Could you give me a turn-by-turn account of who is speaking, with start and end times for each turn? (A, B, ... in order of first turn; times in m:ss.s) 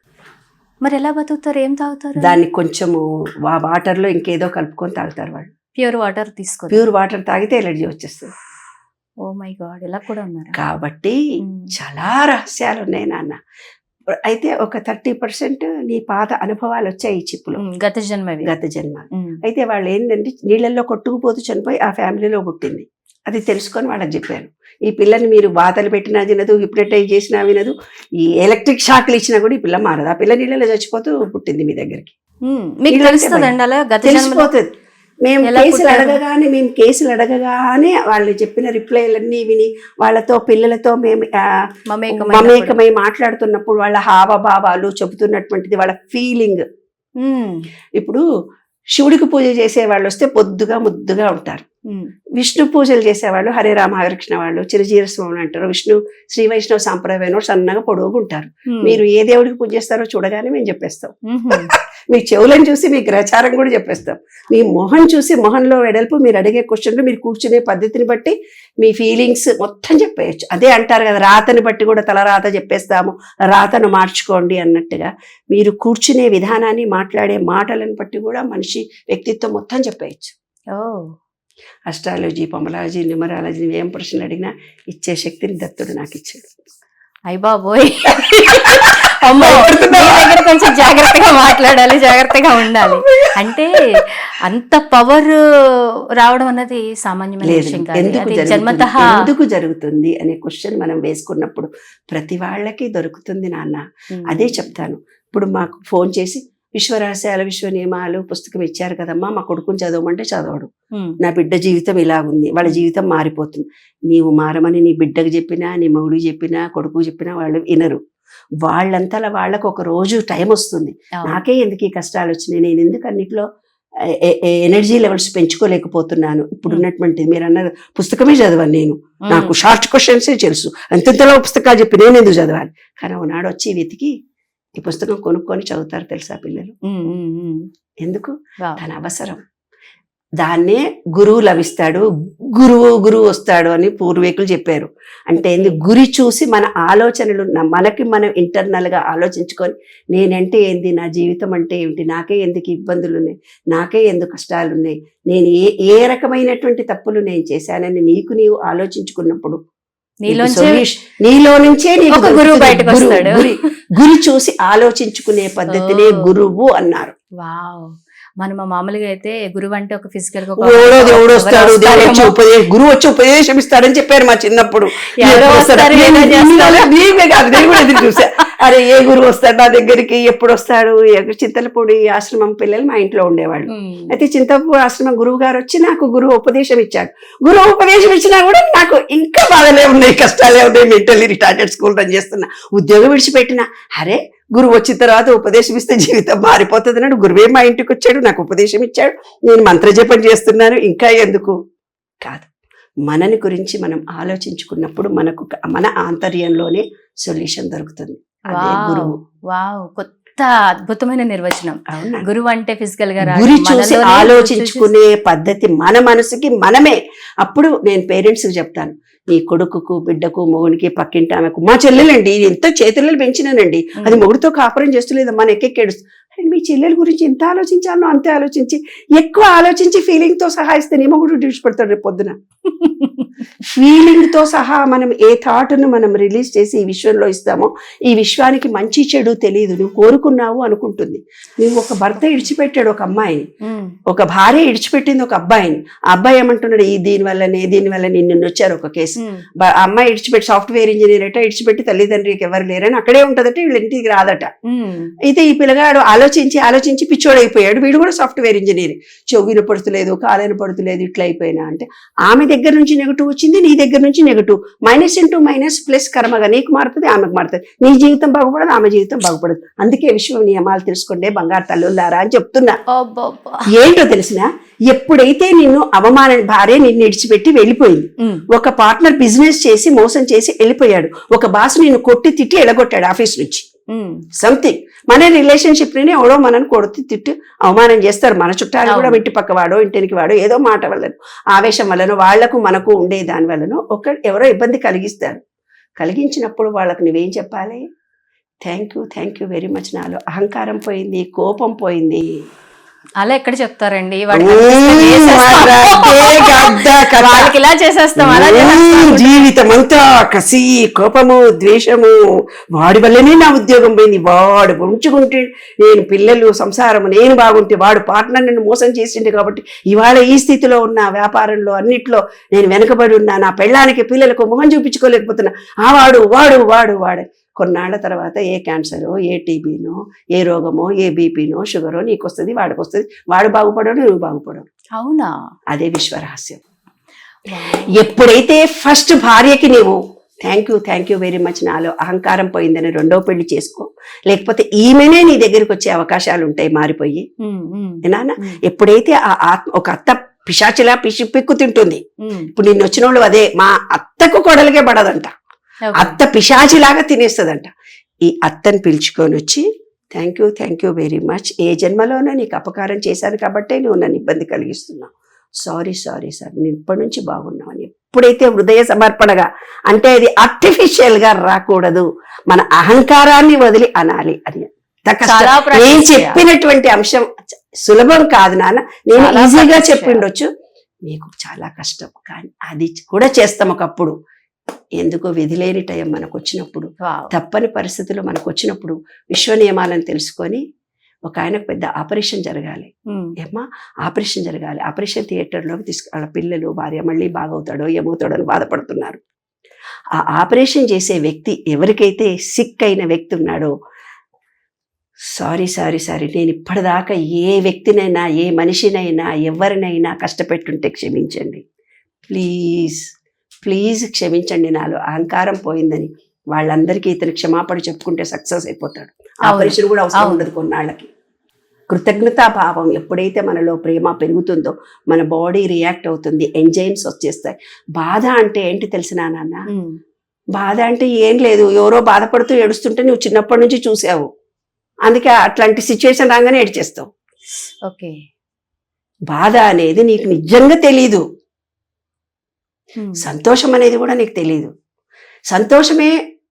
0:00.8-0:02.4 A
0:02.2-0:05.5 B
0:05.8-0:06.8 A
0:06.7-0:08.3 B
0:09.2-0:10.5 A
0:10.6-0:11.2 B
0:11.4-0:11.7 A
0:11.8-0:13.4 B
0:14.3-0:17.6 B
0:17.6-0:18.5 A
0:18.4-0:27.7 B
0:19.1-0:19.4 A
0:28.2-0:32.1 B
0:32.5-0:34.5 A
0:32.9-0:33.5 B
0:34.0-0:34.7 B
0:35.2-0:46.6 B
0:35.4-0:36.2 A
0:41.9-0:42.7 A
0:47.2-0:47.6 A
0:48.0-0:48.2 B
0:48.9-0:51.6 B
0:52.4-1:01.1 B
0:58.7-0:59.0 A
1:01.3-1:01.7 A
1:02.1-1:20.3 B
1:20.7-1:21.1 A
1:21.9-1:26.5 B
1:27.3-1:33.8 A
1:29.3-1:30.4 B
1:33.0-1:33.3 B
1:34.4-1:35.4 A
1:36.2-1:39.0 A
1:37.4-1:50.7 B
1:44.1-1:44.5 A
1:51.2-1:58.0 B
1:58.6-2:03.4 B
2:04.2-2:14.1 B
2:09.2-2:09.5 A
2:14.8-2:16.7 B
2:16.8-2:17.6 A
2:18.0-2:19.4 B
2:20.4-2:39.6 B
2:25.4-2:25.8 A
2:40.2-2:40.8 A
2:40.3-2:47.1 B
2:42.1-2:43.5 A
2:45.7-2:46.2 A
2:47.4-2:52.3 A
2:50.6-3:21.5 B
2:55.2-2:56.9 A
2:57.5-2:58.2 A
3:03.7-3:04.2 A
3:23.1-3:29.2 B
3:28.5-3:34.9 A
3:31.9-3:32.2 B
3:33.2-3:52.4 B
3:52.8-3:53.3 A
3:53.7-4:03.4 B
4:03.6-4:03.9 A
4:04.1-4:14.5 B
4:09.2-4:09.4 A
4:14.7-4:15.1 A
4:15.2-4:32.8 B
4:32.9-4:33.7 A
4:33.7-4:43.6 B
4:43.9-4:44.2 A
4:44.4-4:55.4 B
4:48.9-4:49.2 A
4:56.0-4:57.8 B
4:58.6-5:02.3 B
5:03.2-5:09.5 A
5:04.3-5:07.5 B
5:08.2-5:34.6 B
5:35.0-5:35.3 A
5:35.7-5:36.6 B
5:37.5-5:37.9 A
5:37.6-5:47.2 B
5:47.4-5:48.6 A
5:48.0-5:52.0 B
5:52.5-5:55.3 B
5:55.8-5:56.2 A
5:56.0-5:57.7 B
5:58.2-6:20.5 B
6:15.2-6:16.4 A
6:19.1-6:20.2 A
6:21.1-6:24.1 B
6:25.0-6:30.6 B
6:27.0-6:27.3 A
6:31.3-6:39.2 B
6:40.2-6:43.7 B
6:45.3-6:51.6 B
6:52.3-6:53.0 B
6:53.6-7:01.1 B
6:59.5-7:00.4 A
7:01.9-7:09.6 B
7:09.7-7:10.0 A
7:10.6-7:14.3 B
7:15.0-7:17.1 B
7:17.8-7:18.1 A
7:19.3-7:21.2 B
7:23.0-7:23.2 A
7:23.2-7:24.7 B
7:25.5-7:26.1 B